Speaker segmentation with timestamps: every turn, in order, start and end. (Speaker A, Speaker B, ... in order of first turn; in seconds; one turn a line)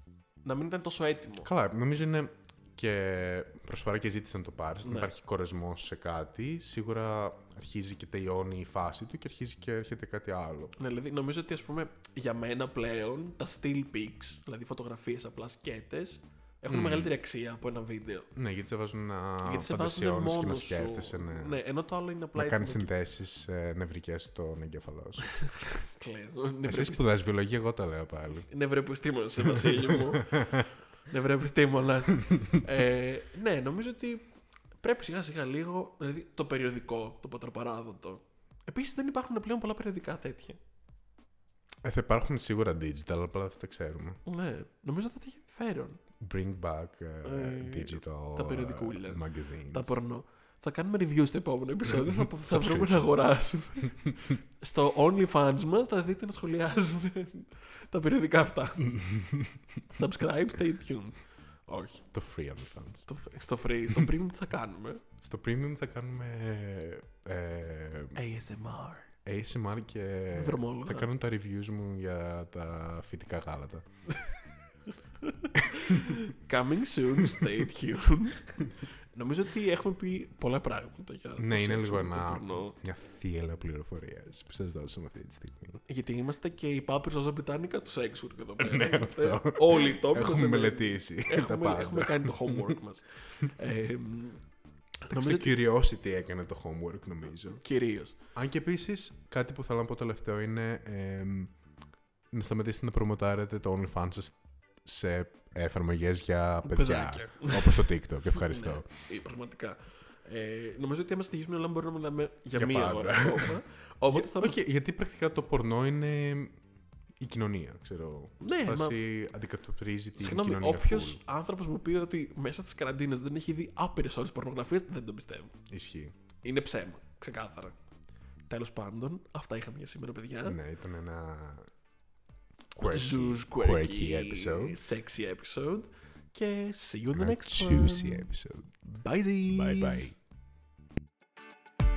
Speaker A: 0.4-1.5
Speaker B: 1.4-10.7
Speaker A: 4.8-5.1
Speaker A: 10.8-18.3
Speaker B: 16.7-17.1
Speaker B: 18.3-21.6
Speaker A: 19.4-22.9
Speaker B: 22.4-25.3
Speaker A: 25.2-27.1
Speaker B: 26.6-28.5
Speaker A: 28.3-34.2
Speaker B: 29.4-30.7
Speaker B: 32.1-32.6
Speaker A: 34.8-40.6
Speaker B: 41.8-44.2
Speaker A: 44.2-46.0
Speaker B: 46.2-50.0
Speaker A: 47.2-59.1
Speaker B: 51.9-53.2
Speaker B: 53.8-54.2
Speaker B: 58.8-59.6
Speaker A: 59.8-62.1
Speaker B: 62.1-63.1
Speaker A: 63.1-65.0
Speaker B: 65.2-68.2
Speaker A: 68.1-69.1
Speaker B: 69.2-73.8
Speaker A: 70.3-71.1
Speaker A: 74.9-82.8
Speaker B: 75.6-76.3
Speaker B: 77.2-77.5
Speaker B: 81.4-85.8
Speaker A: 85.8-94.4
Speaker B: 88.6-92.8
Speaker A: 95.0-95.5
Speaker B: 95.1-97.6
Speaker A: 97.4-98.2
Speaker B: 98.3-101.5
Speaker B: 102.3-108.9
Speaker A: 106.6-114.6
Speaker B: 112.5-116.6
Speaker B: 117.2-121.2
Speaker A: 118.4-119.0
Speaker A: 120.2-125.5
Speaker B: 125.7-126.1
Speaker A: 126.4-127.7
Speaker A: 128.5-130.6
Speaker B: 130.4-131.7
Speaker B: 132.7-134.8
Speaker A: 132.8-138.3
Speaker B: 137.1-138.7
Speaker A: 138.8-140.1
Speaker B: 139.4-140.2